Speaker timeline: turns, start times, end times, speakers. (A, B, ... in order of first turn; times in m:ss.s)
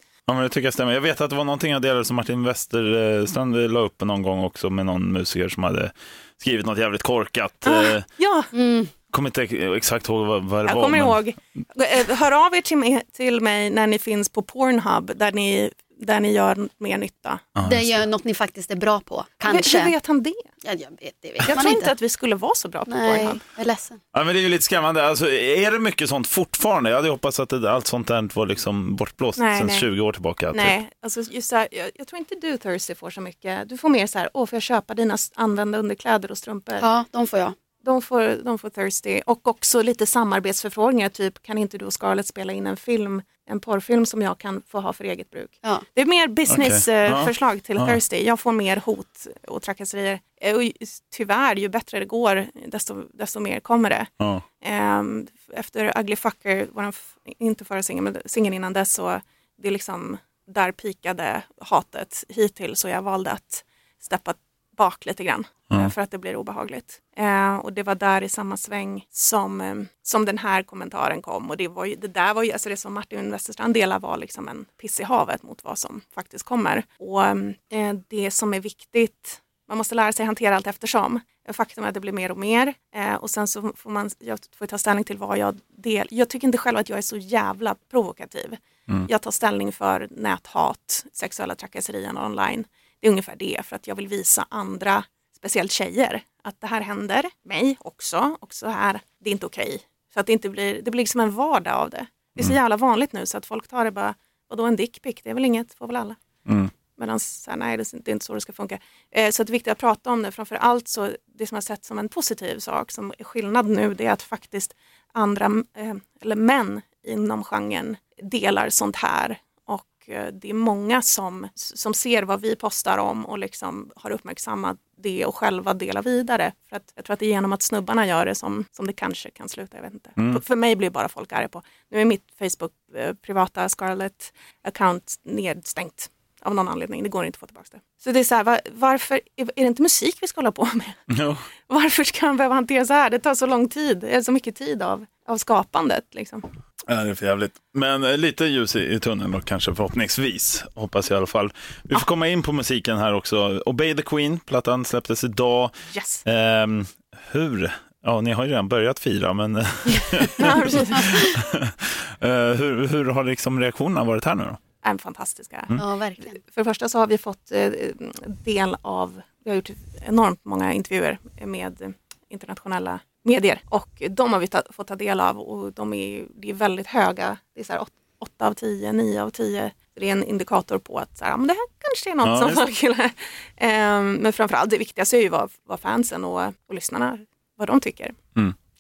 0:00.3-0:08.1 A
0:07.6-0:08.5 B
0:08.5-0:08.9 C
0:09.1-0:11.2 A
0:10.7-0:17.5 B
0:17.6-0:17.8 A
0:17.6-0:20.0 C
0:19.5-0:20.5 B
0:20.6-0:21.9 C
0:21.4-0:23.4 B
0:22.9-0:24.0 C
0:24.1-0:30.8 A
0:29.4-0:29.9 B
0:30.5-0:36.8 B
0:36.8-0:37.6 C
0:37.8-0:54.1 B
0:46.5-0:48.0 A
0:54.6-1:46.2 B
1:46.5-1:46.7 A
1:47.0-2:21.0 B
2:10.2-2:10.4 A
2:21.1-2:21.4 A
2:21.7-2:26.5 B
2:26.9-2:35.7 A
2:35.9-2:36.2 B
2:36.2-2:44.6 A
2:40.2-2:41.2 B
2:44.8-2:45.7 B
2:45.8-2:46.4 C
2:46.2-3:08.2 B
3:02.2-3:02.6 A